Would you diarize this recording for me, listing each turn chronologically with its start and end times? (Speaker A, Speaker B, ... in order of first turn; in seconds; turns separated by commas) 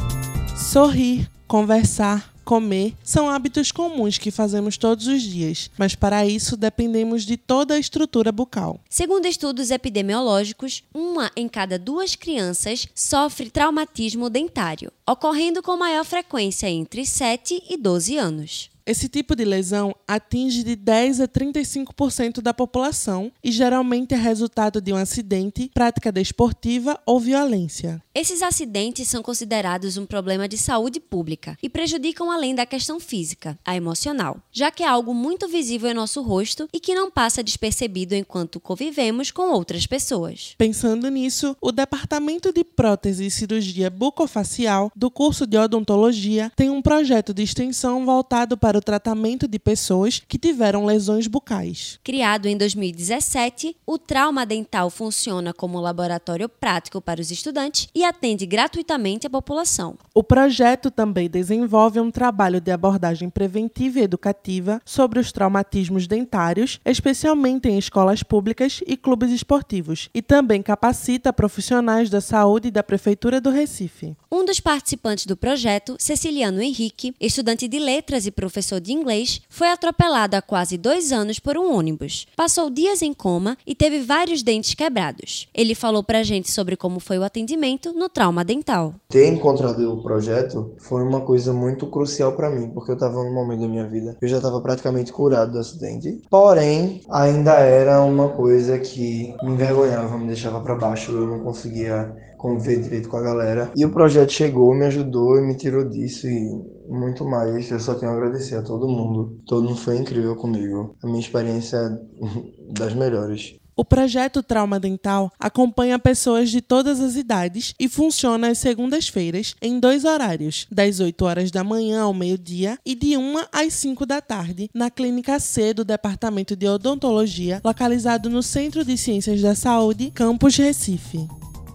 Speaker A: 0.5-8.8, Speaker B: 8.9-18.7, Speaker A: 18.8-28.0, Speaker B: 28.1-40.5, Speaker A: 40.6-52.0, Speaker B: 52.0-60.0, Speaker A: 60.1-74.2, Speaker B: 74.3-89.0, Speaker C: 89.1-113.5, Speaker A: 113.8-131.3